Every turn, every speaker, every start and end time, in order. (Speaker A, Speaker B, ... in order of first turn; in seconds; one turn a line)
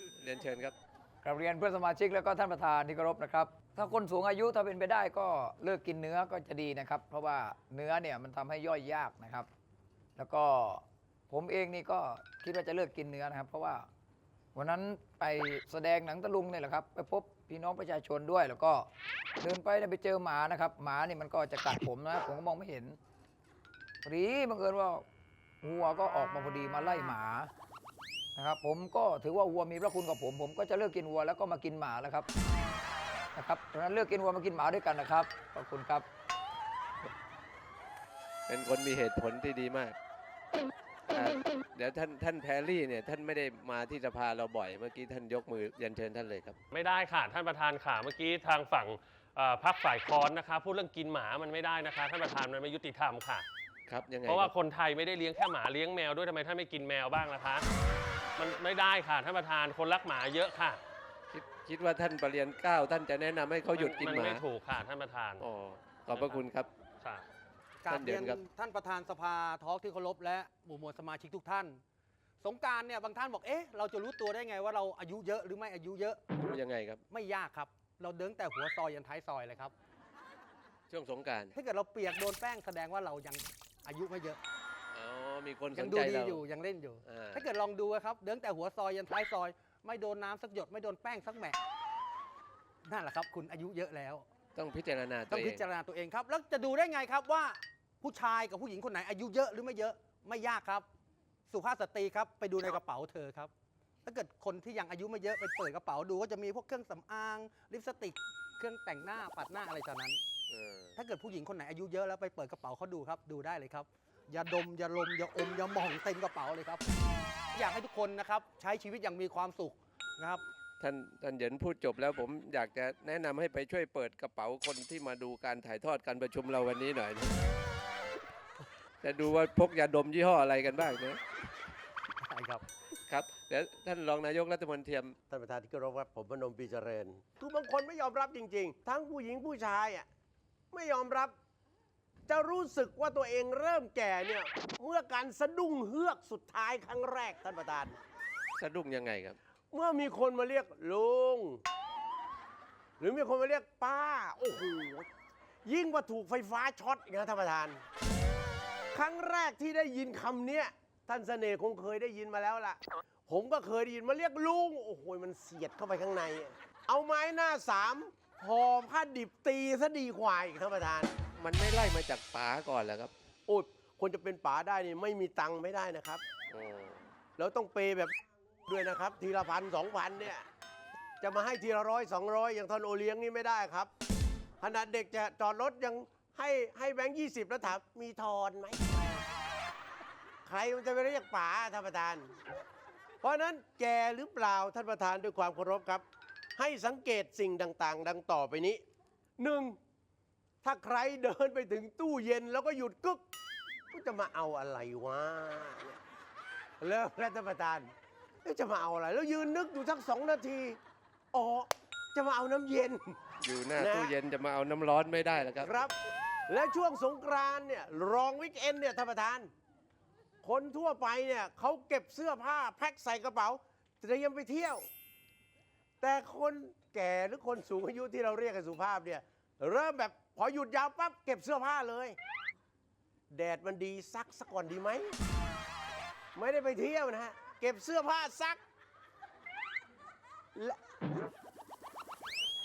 Speaker A: 0.1-0.7
Speaker B: 1.2-9.5
Speaker B: 10.2-13.9
Speaker B: 14.5-23.0
Speaker B: 24.0-25.1
Speaker B: 25.6-27.5
Speaker B: 28.4-32.3
Speaker B: 33.3-36.1
Speaker A: 38.5-40.0
Speaker A: 41.1-46.6
Speaker C: 46.7-53.5
Speaker A: 53.9-54.5
Speaker C: 54.2-57.7
Speaker C: 58.4-60.8
Speaker A: 61.3-64.5
Speaker C: 63.7-65.4
Speaker A: 65.4-66.7
Speaker C: 66.1-66.4
Speaker D: 67.8-71.8
Speaker A: 67.9-68.4
Speaker D: 72.4-76.2
Speaker A: 76.3-77.0
Speaker D: 77.1-79.7
Speaker A: 80.9-81.6
Speaker D: 81.5-84.4
Speaker A: 84.9-86.4
Speaker D: 85.7-91.6
Speaker A: 87.0-87.5
Speaker D: 92.8-94.2
Speaker A: 94.5-95.6
Speaker D: 95.3-100.9
Speaker D: 101.5-103.5
Speaker D: 104.0-110.2
Speaker A: 110.5-111.0
Speaker D: 111.0-117.0
Speaker D: 117.5-120.4
Speaker A: 120.8-127.4
Speaker A: 129.0-131.2
Speaker D: 132.2-132.6
Speaker A: 133.1-135.2
Speaker E: 135.3-140.1
Speaker E: 140.7-141.3
Speaker E: 142.3-148.0
Speaker A: 148.6-149.4
Speaker E: 149.7-151.6
Speaker E: 153.0-155.1
Speaker E: 155.7-157.8
Speaker E: 158.9-171.1
Speaker A: 171.4-173.1
Speaker E: 173.5-176.2
Speaker A: 176.5-177.1
Speaker E: 177.4-180.5
Speaker E: 181.2-183.9
Speaker E: 184.6-189.0
Speaker E: 190.5-192.3
Speaker E: 193.2-196.1
Speaker E: 196.6-198.8
Speaker E: 199.4-199.8
Speaker E: 200.6-203.2
Speaker E: 203.9-206.0
Speaker E: 206.8-207.9
Speaker E: 208.4-210.8
Speaker E: 211.3-213.2
Speaker A: 213.4-215.7
Speaker E: 213.8-214.2
Speaker E: 215.6-215.9
Speaker E: 216.5-219.5
Speaker E: 220.4-224.9
Speaker E: 226.0-232.2
Speaker E: 233.3-235.2
Speaker E: 236.3-238.6